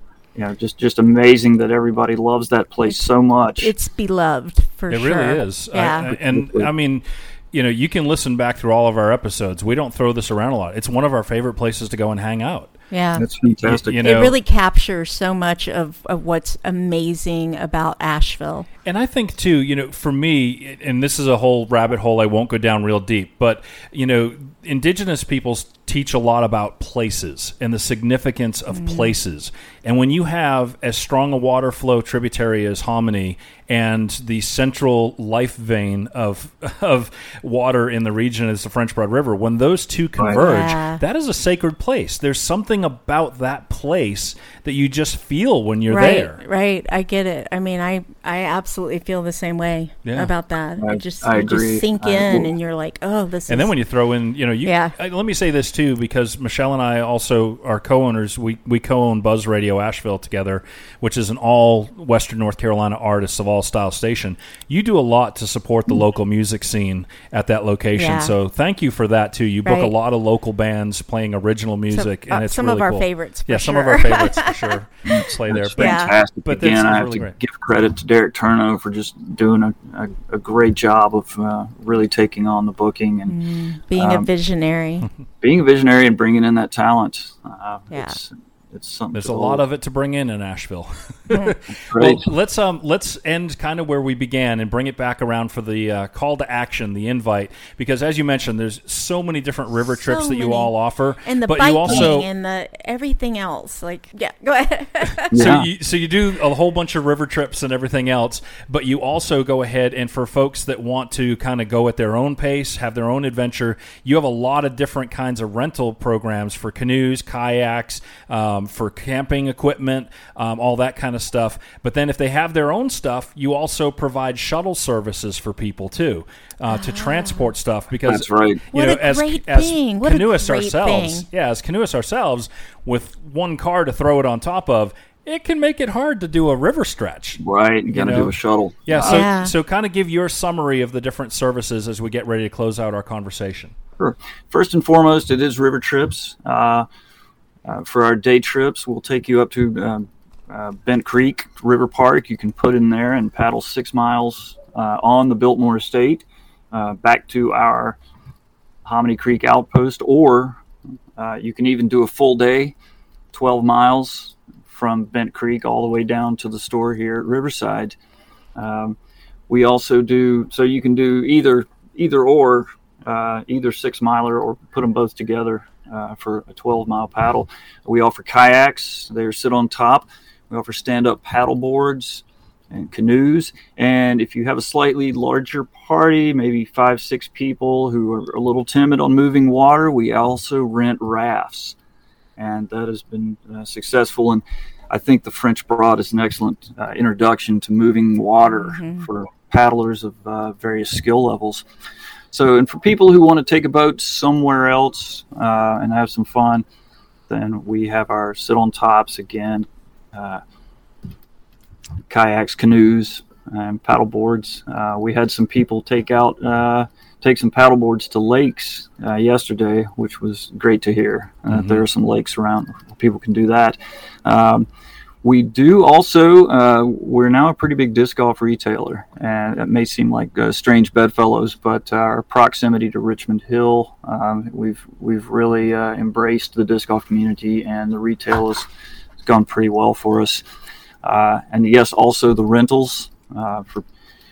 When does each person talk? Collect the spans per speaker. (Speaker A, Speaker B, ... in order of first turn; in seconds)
Speaker A: 0.3-3.7, 6.1-6.7, 13.2-14.0, 50.8-52.5, 75.1-83.3, 83.9-84.3, 85.4-89.6, 91.9-92.2, 105.3-105.7, 128.1-128.6, 137.4-139.2, 144.0-146.8, 147.7-158.0, 158.8-160.6, 161.2-162.7, 163.3-168.0, 168.6-168.9, 169.5-191.7, 192.4-201.6, 202.3-206.6, 207.3-210.4, 212.1-224.7, 225.2-238.7, 239.2-240.4, 241.0-243.8
Speaker B: 2.8-6.1, 12.9-13.2, 14.0-18.7, 28.7-29.1, 40.3-41.0, 45.9-53.7, 54.6-54.9, 67.9-68.3, 69.6-69.9, 71.9-74.8, 75.8-76.1, 83.2-85.1, 87.9-88.2, 91.3-91.5, 100.0-100.7, 101.2-105.3, 126.7-127.5, 128.7-131.3, 139.0-139.5, 198.5-199.1
Speaker C: 4.9-12.7, 13.6-14.3, 18.9-46.4, 50.0-50.3, 53.5-77.3, 89.1-102.3, 105.3-143.7, 221.5-221.8